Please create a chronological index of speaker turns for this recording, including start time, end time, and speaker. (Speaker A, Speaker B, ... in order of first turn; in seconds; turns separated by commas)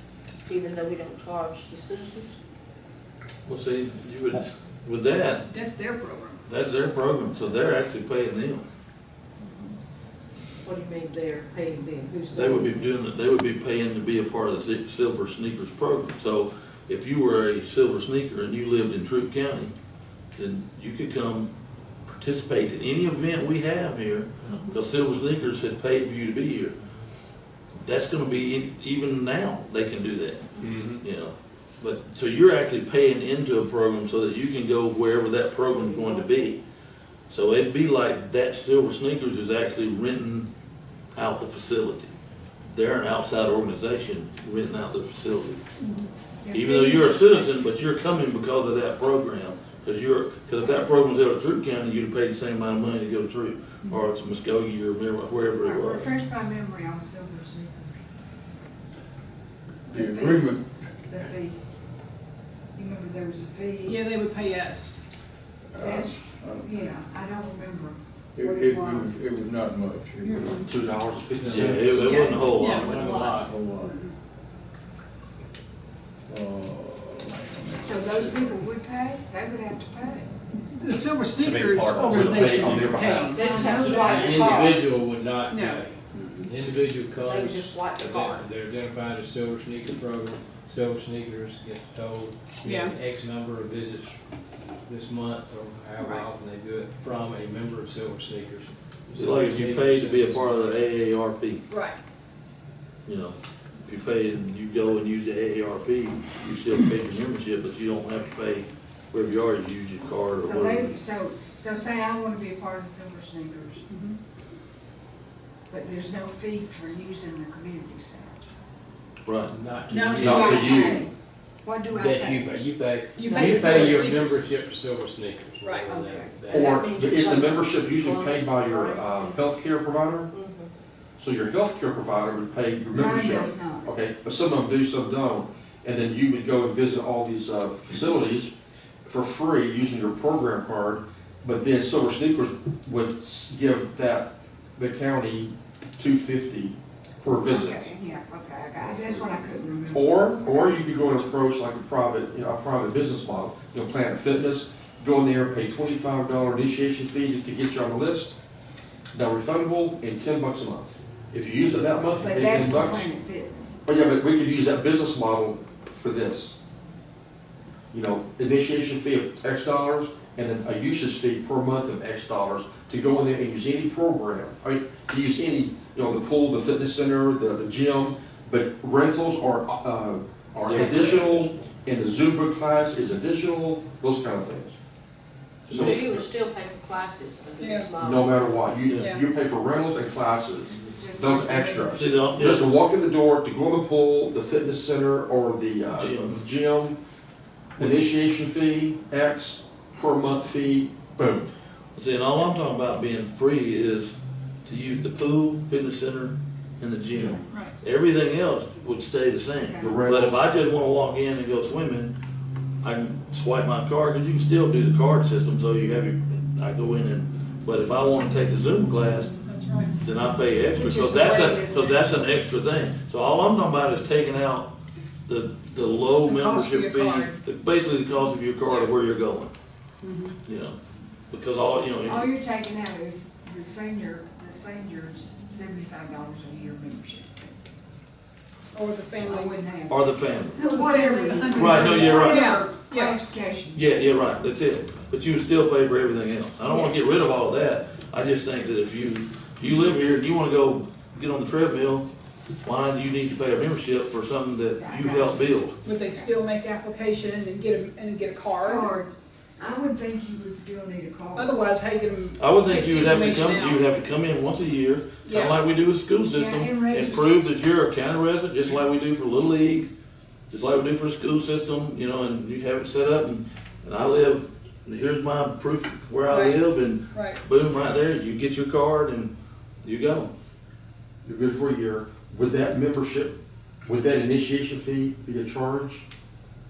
Speaker A: 0.5-2.3, Speaker B: 3.5-5.5, Speaker C: 5.5-6.4, Speaker B: 6.5-8.7, Speaker A: 10.6-12.6, Speaker C: 12.1-12.5, Speaker B: 12.3-19.7, Speaker B: 20.4-21.5, Speaker B: 22.1-26.7, Speaker B: 27.8-36.6, Speaker D: 30.6-31.0, Speaker A: 35.8-36.4, Speaker B: 37.3-40.5, Speaker B: 41.1-42.1, Speaker B: 42.7-45.6, Speaker C: 45.8-46.1, Speaker E: 46.4-47.5, Speaker B: 46.5-56.1, Speaker E: 55.5-57.9, Speaker E: 59.9-60.5, Speaker F: 59.9-60.6, Speaker E: 61.1-61.6, Speaker E: 62.7-64.1, Speaker C: 63.8-65.0, Speaker F: 65.7-66.7, Speaker E: 65.8-69.2, Speaker F: 68.3-70.7, Speaker C: 70.2-70.7, Speaker G: 70.6-72.1, Speaker D: 71.4-73.5, Speaker F: 71.5-72.4, Speaker B: 71.5-73.2, Speaker C: 71.9-73.0, Speaker F: 73.3-74.1, Speaker F: 76.3-78.5, Speaker E: 77.8-80.3, Speaker C: 80.6-83.6, Speaker D: 81.4-82.3, Speaker G: 82.0-83.6, Speaker E: 83.0-84.6, Speaker A: 83.3-85.0, Speaker D: 83.8-94.2, Speaker C: 85.5-86.5, Speaker A: 87.2-88.5, Speaker C: 92.6-93.0, Speaker D: 94.8-100.8, Speaker C: 96.0-96.3, Speaker B: 99.2-101.6, Speaker C: 101.7-102.0, Speaker B: 103.0-110.9, Speaker E: 110.4-113.8, Speaker C: 113.9-114.2, Speaker E: 115.7-118.4, Speaker B: 119.2-119.5, Speaker D: 119.5-120.8, Speaker C: 119.9-120.3, Speaker B: 120.2-121.1, Speaker E: 120.2-121.1, Speaker G: 120.3-120.9, Speaker E: 121.6-122.6, Speaker D: 121.9-126.8, Speaker C: 123.1-124.5, Speaker E: 123.2-124.1, Speaker C: 125.6-125.9, Speaker E: 125.9-126.4, Speaker A: 126.5-129.4, Speaker G: 126.5-130.3, Speaker A: 130.3-130.7, Speaker G: 131.2-138.5, Speaker E: 132.9-133.9, Speaker G: 139.0-147.9, Speaker E: 147.4-150.8, Speaker G: 148.9-149.2, Speaker G: 149.9-158.3, Speaker G: 159.1-163.1, Speaker E: 162.1-163.8, Speaker G: 163.8-166.5, Speaker G: 167.9-184.7, Speaker B: 180.6-181.5, Speaker G: 185.7-186.2, Speaker B: 185.7-186.2, Speaker A: 185.7-188.4, Speaker C: 187.6-187.9, Speaker G: 188.0-197.0, Speaker B: 188.9-189.1, Speaker C: 188.9-189.2, Speaker E: 190.7-192.2, Speaker B: 191.9-192.7, Speaker B: 195.9-196.4, Speaker G: 197.8-201.5, Speaker B: 197.8-198.1, Speaker B: 201.9-204.1, Speaker B: 204.6-212.1, Speaker E: 209.7-210.0, Speaker G: 209.8-210.5, Speaker B: 212.8-219.3, Speaker C: 219.4-219.9, Speaker B: 220.0-224.7, Speaker E: 220.7-222.2, Speaker B: 225.2-229.5, Speaker C: 226.2-227.4, Speaker C: 230.0-230.3, Speaker B: 230.4-230.8, Speaker B: 231.3-232.3, Speaker E: 232.0-237.5, Speaker C: 238.7-239.7, Speaker E: 239.2-244.0, Speaker B: 239.9-240.8, Speaker C: 240.6-243.2, Speaker B: 241.5-242.5, Speaker B: 243.7-252.1, Speaker E: 246.7-246.9, Speaker B: 252.6-255.8, Speaker E: 254.7-256.3, Speaker C: 255.8-259.0, Speaker E: 258.6-261.6, Speaker C: 261.3-263.8, Speaker B: 262.4-269.9, Speaker C: 265.2-265.6, Speaker E: 266.2-267.4, Speaker B: 270.5-279.3, Speaker C: 276.3-277.4, Speaker B: 279.8-280.3, Speaker G: 281.2-286.0